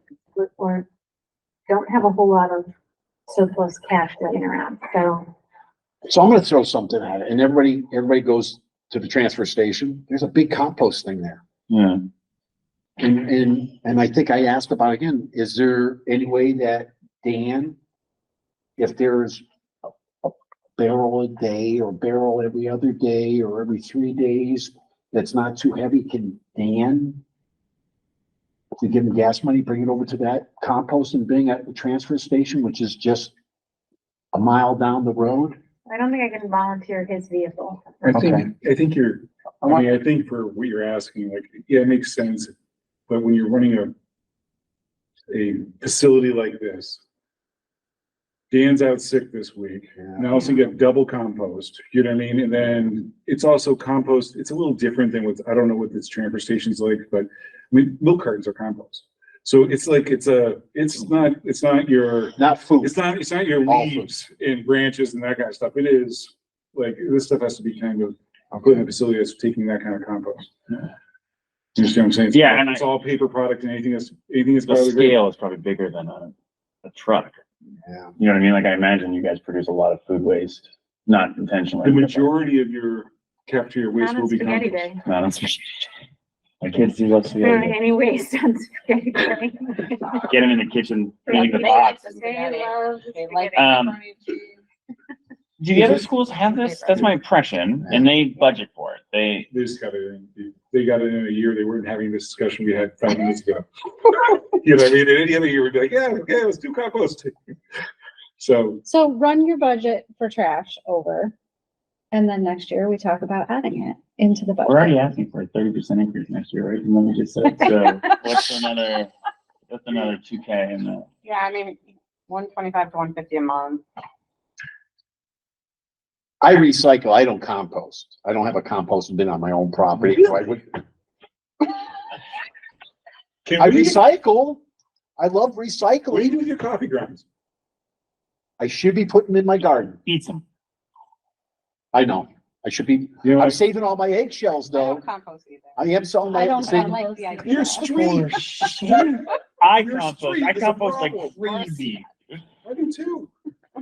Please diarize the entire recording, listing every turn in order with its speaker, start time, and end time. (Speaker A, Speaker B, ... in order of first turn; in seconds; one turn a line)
Speaker A: 0.3-0.8
Speaker A: 1.7-2.7
Speaker A: 3.3-5.3
Speaker B: 6.0-11.4
Speaker C: 11.7-12.0
Speaker B: 13.0-17.8
Speaker B: 18.8-19.4
Speaker B: 20.2-27.2
Speaker B: 28.8-33.3
Speaker B: 34.3-35.6
Speaker A: 35.9-37.8
Speaker D: 38.0-42.5
Speaker B: 38.1-38.5
Speaker B: 39.6-39.9
Speaker D: 43.1-43.9
Speaker D: 45.3-47.0
Speaker D: 48.5-70.8
Speaker B: 62.4-63.0
Speaker B: 63.6-64.1
Speaker B: 68.5-68.8
Speaker D: 71.7-75.2
Speaker C: 72.3-72.9
Speaker C: 74.7-77.4
Speaker B: 77.8-78.1
Speaker C: 78.2-82.3
Speaker D: 81.8-84.9
Speaker A: 84.0-85.0
Speaker C: 85.0-85.9
Speaker C: 86.6-87.8
Speaker A: 87.4-90.3
Speaker C: 90.3-92.0
Speaker A: 91.3-93.7
Speaker E: 91.3-94.6
Speaker C: 93.5-94.0
Speaker C: 95.6-99.5
Speaker E: 96.4-97.1
Speaker B: 97.8-98.1
Speaker D: 99.5-107.3
Speaker D: 108.4-108.8
Speaker F: 108.8-111.3
Speaker F: 112.1-114.9
Speaker C: 114.6-119.1
Speaker C: 119.7-121.1
Speaker E: 121.2-123.8
Speaker B: 126.4-130.8
Speaker D: 133.4-134.0
Speaker B: 133.6-134.6
Speaker B: 135.2-136.3
Speaker D: 136.1-137.2
Speaker B: 138.6-140.0
Speaker C: 140.1-140.4
Speaker B: 141.9-145.1
Speaker D: 143.2-143.6
Speaker E: 144.7-148.4
Speaker B: 145.8-147.0
Speaker F: 146.3-148.2
Speaker D: 147.4-151.9
Speaker C: 147.9-152.4
Speaker D: 152.6-153.3